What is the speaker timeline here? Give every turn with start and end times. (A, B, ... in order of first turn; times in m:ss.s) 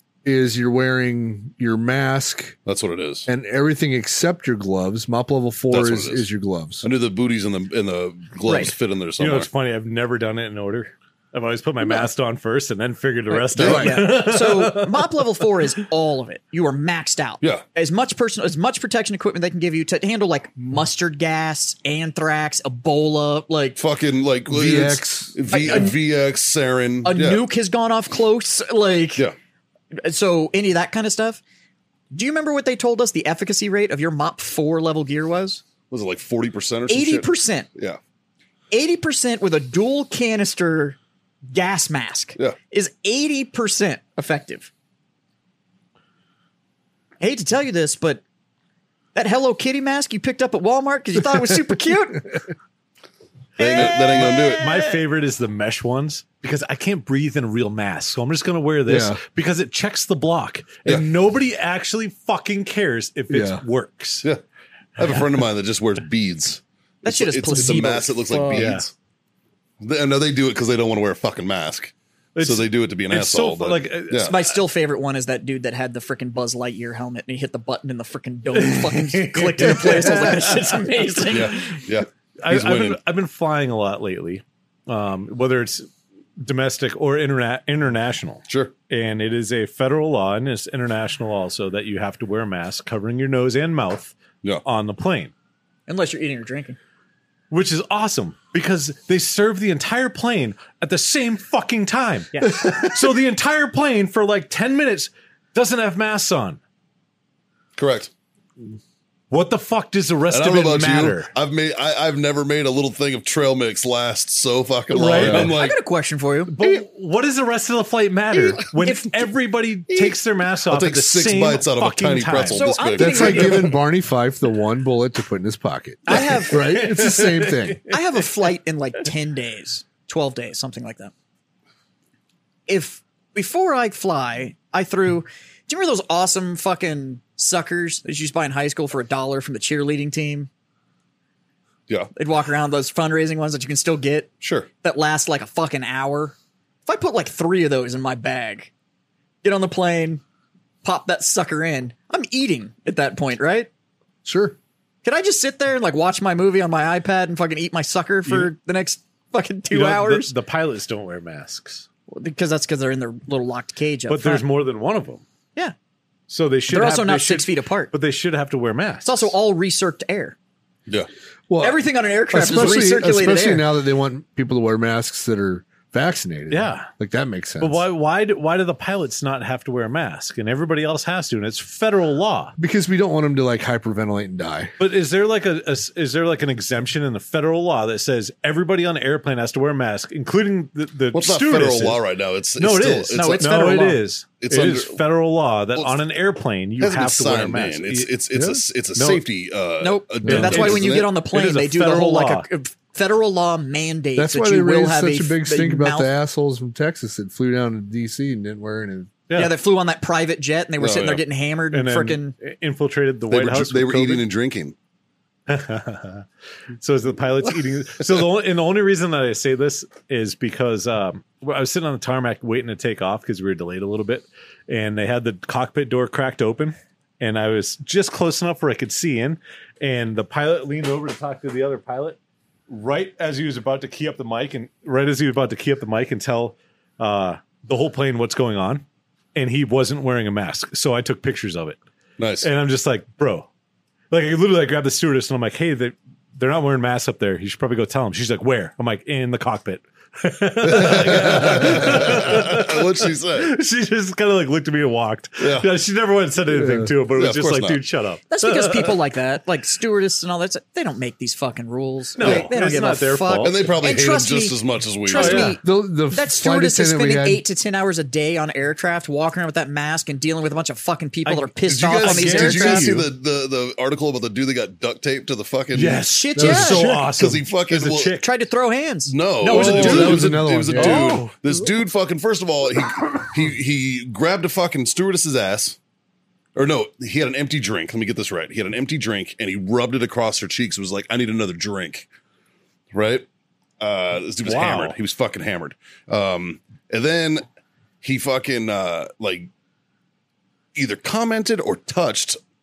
0:00.2-0:02.6 A
0:02.6-0:03.3 B
0:03.2-0:06.9 A
0:05.7-0:06.3 B
0:06.8-0:09.5 B
0:08.5-0:08.7 C
0:09.2-0:15.2 D
0:13.6-0:14.0 B
0:13.6-0:23.8 C
0:13.6-0:14.1 A
0:23.8-0:27.4 B
0:24.5-0:25.4 A
0:25.5-0:26.0 C
0:27.0-0:29.2 C
0:30.0-0:31.4 C
0:32.1-0:35.6 C
0:35.9-0:38.0 B
0:36.9-0:37.7 C
0:38.7-0:41.0 C
0:41.5-0:44.7 C
0:47.2-0:48.2 C
0:49.1-0:52.4 C
0:53.6-0:55.0 C
0:53.6-0:54.6 B
0:53.6-1:04.2 D
0:58.8-0:59.2 A
1:03.3-1:03.6 A
1:05.0-1:08.9 B
1:07.0-1:08.6 C
1:07.6-1:08.6 A
1:08.5-1:08.8 D
1:09.8-1:14.4 B
1:12.4-1:14.4 D
1:14.2-1:21.8 C
1:18.5-1:21.6 D
1:21.3-1:23.0 B
1:22.4-1:35.3 D
1:35.9-1:36.8 C
1:37.5-1:46.6 D
1:42.3-1:42.8 C
1:47.8-1:48.1 B
1:49.3-1:51.3 D
1:50.3-1:55.8 B
1:54.9-1:55.5 D
1:55.1-1:56.8 C
1:55.2-1:55.5 A
1:56.5-2:02.7 D
1:58.3-1:59.3 C
1:59.9-2:00.2 C
2:00.7-2:03.8 B
2:02.5-2:03.7 C
2:03.0-2:07.8 A
2:06.1-2:06.9 C
2:06.2-2:08.2 D
2:07.9-2:11.1 C
2:12.7-2:20.5 C
2:22.1-2:24.3 C
2:24.4-2:24.7 B
2:24.8-2:28.7 C
2:29.4-2:30.2 C
2:30.8-2:33.7 C
2:34.2-2:34.6 A
2:35.0-2:40.3 C
2:38.2-2:38.5 D
2:39.7-2:41.9 D
2:42.1-2:44.4 C
2:44.1-2:45.2 D
2:46.3-2:49.3 D
2:46.7-2:47.9 C
2:49.0-2:50.4 C
2:51.5-2:51.8 A
2:51.6-2:53.7 C
2:52.3-2:57.8 A
2:56.5-2:56.9 D
2:57.6-3:02.6 D
3:02.6-3:04.8 A
3:04.8-3:12.0 D
3:11.1-3:13.8 B
3:12.6-3:18.1 D
3:13.1-3:14.0 C
3:14.4-3:15.0 B
3:15.8-3:16.0 B
3:16.8-3:21.1 B
3:18.3-3:18.6 A
3:19.0-3:19.2 D
3:19.8-3:26.1 C
3:20.2-3:22.5 D
3:24.2-3:29.1 A
3:29.3-3:29.5 D
3:29.3-3:32.4 C
3:30.8-3:31.2 B
3:31.7-3:34.2 D
3:33.3-3:34.7 B
3:35.5-3:36.2 D
3:36.8-3:52.2 D
3:52.7-4:01.8 D
4:02.2-4:02.5 B
4:02.4-4:03.5 D
4:04.1-4:19.0 D
4:10.6-4:13.5 B
4:15.4-4:15.7 B
4:16.5-4:16.9 A
4:17.1-4:17.8 B
4:18.3-4:33.0 C
4:22.2-4:23.7 D
4:22.2-4:22.5 B
4:23.4-4:25.6 B
4:25.1-4:25.6 D
4:25.6-4:27.4 A
4:31.2-4:33.1 D
4:31.7-4:36.0 B
4:35.7-4:38.3 D
4:35.9-4:36.9 C
4:36.4-4:37.1 A
4:36.8-4:38.2 B
4:38.2-4:40.2 C
4:39.1-4:45.8 B
4:39.4-4:41.2 A
4:39.5-4:41.4 D
4:46.6-4:52.1 B
4:52.9-4:53.2 B
4:53.8-4:57.4 B
4:54.4-4:55.0 D
4:58.0-4:59.5 B
5:00.7-5:02.4 B